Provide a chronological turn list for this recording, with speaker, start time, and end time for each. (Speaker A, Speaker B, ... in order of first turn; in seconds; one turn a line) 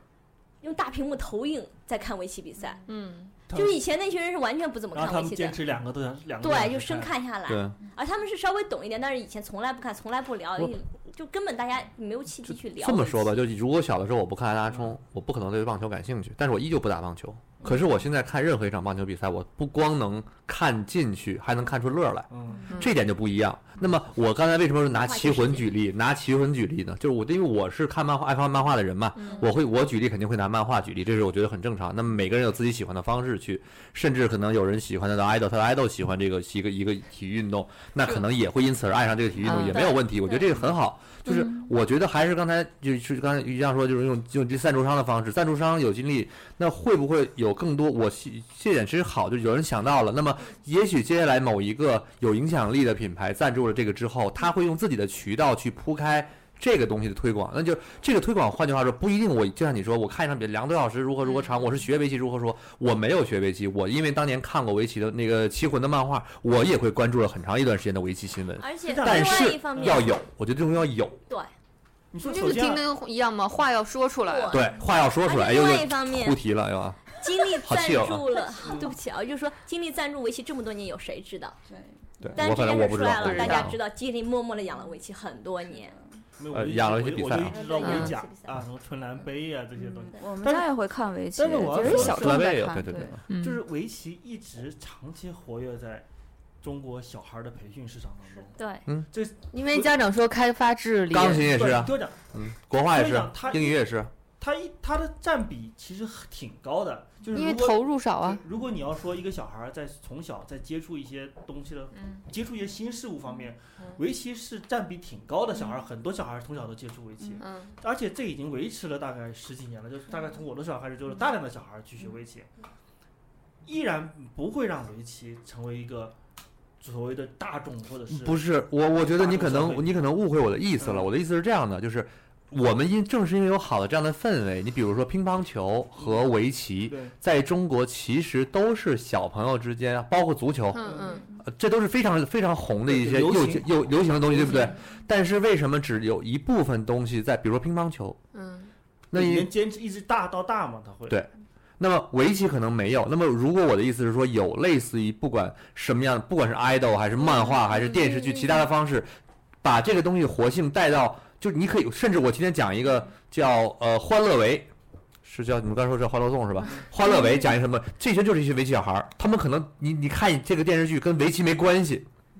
Speaker A: 0.6-2.8
Speaker B: 2.9-3.3
Speaker C: 3.5-3.8
Speaker A: 3.5-5.6
Speaker C: 4.9-7.1
Speaker A: 6.4-13.3
Speaker D: 7.5-7.8
Speaker D: 12.7-71.2
Speaker C: 22.3-22.8
Speaker A: 24.9-25.8
Speaker B: 29.1-29.4
Speaker B: 39.4-39.9
Speaker A: 39.7-40.5
Speaker B: 41.2-41.7
Speaker A: 68.6-70.1
Speaker C: 68.8-70.1
Speaker C: 72.1-72.9
Speaker B: 72.2-74.6
Speaker A: 74.2-76.4
Speaker D: 74.5-78.2
Speaker A: 77.1-81.6
Speaker C: 78.6-79.0
Speaker E: 81.7-82.3
Speaker D: 82.2-83.8
Speaker A: 82.3-86.0
Speaker B: 83.2-83.7
Speaker C: 86.4-90.7
Speaker D: 86.5-87.6
Speaker A: 87.5-88.6
Speaker B: 87.8-88.1
Speaker E: 89.8-93.2
Speaker C: 91.3-92.6
Speaker D: 91.7-93.2
Speaker B: 93.3-93.6
Speaker C: 93.3-96.0
Speaker C: 96.6-98.5
Speaker A: 98.5-98.8
Speaker C: 99.1-100.0
Speaker B: 99.5-101.5
Speaker D: 101.1-104.1
Speaker C: 101.2-102.2
Speaker C: 102.9-122.5
Speaker B: 107.3-108.4
Speaker B: 117.4-117.8
Speaker C: 123.6-126.2
Speaker C: 126.8-128.4
Speaker D: 128.1-140.9
Speaker C: 129.0-130.0
Speaker C: 130.8-131.1
Speaker C: 136.0-136.3
Speaker C: 136.9-137.1
Speaker B: 140.7-141.3
Speaker C: 140.8-141.2
Speaker D: 141.4-148.2
Speaker C: 142.8-144.8
Speaker B: 148.3-148.7
Speaker D: 149.1-149.5
Speaker C: 149.1-151.2
Speaker D: 151.1-159.1
Speaker A: 157.2-158.6
Speaker D: 159.6-164.7
Speaker D: 165.2-172.1
Speaker A: 167.0-167.5